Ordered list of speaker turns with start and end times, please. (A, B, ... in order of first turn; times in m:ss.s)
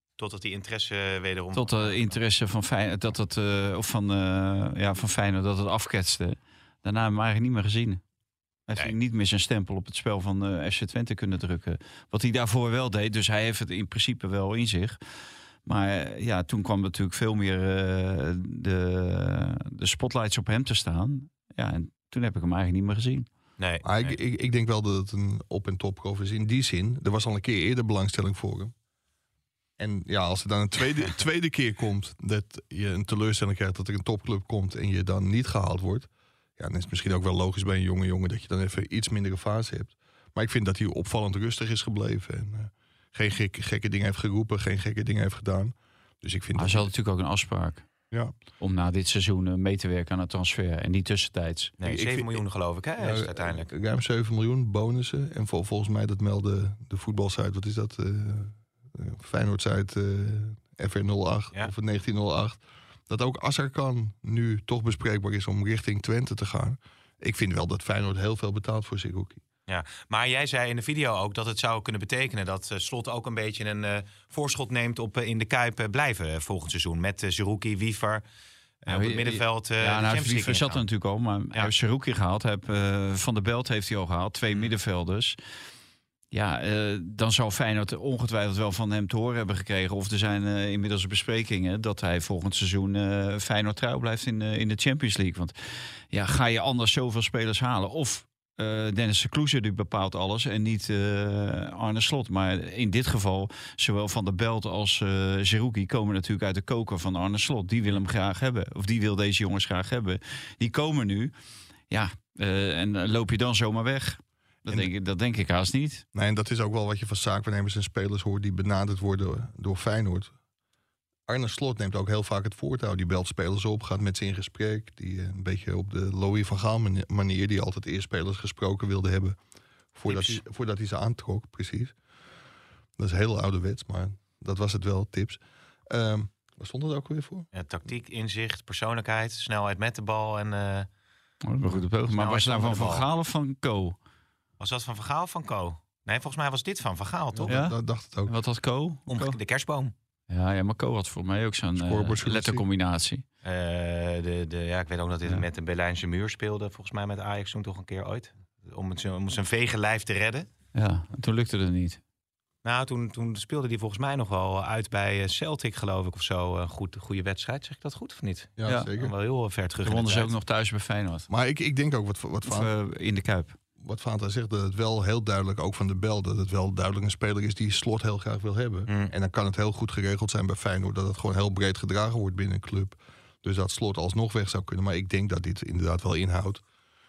0:00.2-0:02.2 A
0:01.5-0:08.0 B
0:08.7-0:15.0 B
0:15.6-0:23.3 B
0:23.6-0:24.2 A
0:23.8-0:28.7 C
0:29.8-0:46.9 C
0:46.6-0:47.8 B
0:48.6-0:51.7 B
0:51.8-0:53.7 A
0:51.8-0:52.4 C
0:53.0-1:09.4 C
1:09.7-1:18.2 A
1:18.8-1:20.8 A
1:18.9-1:25.4 B
1:26.3-1:35.5 B
1:36.1-1:51.3 B
1:51.9-1:56.0 B
1:56.1-2:00.3 C
2:01.3-2:09.4 C
2:10.0-2:12.0 C
2:10.1-2:10.4 A
2:13.0-2:17.5 C
2:17.5-2:20.9 A
2:21.4-2:24.0 B
2:22.1-2:23.1 A
2:24.6-2:27.6 A
2:27.3-2:28.4 C
2:27.5-2:29.4 B
2:29.1-2:29.9 A
2:30.3-2:33.2 B
2:31.8-2:32.6 C
2:33.4-2:40.5 A
2:40.8-2:42.0 B
2:42.6-2:50.3 A
2:48.6-2:49.1 C
2:49.8-2:51.3 B
2:51.3-2:52.7 C
2:52.4-2:53.6 B
2:53.8-3:06.6 C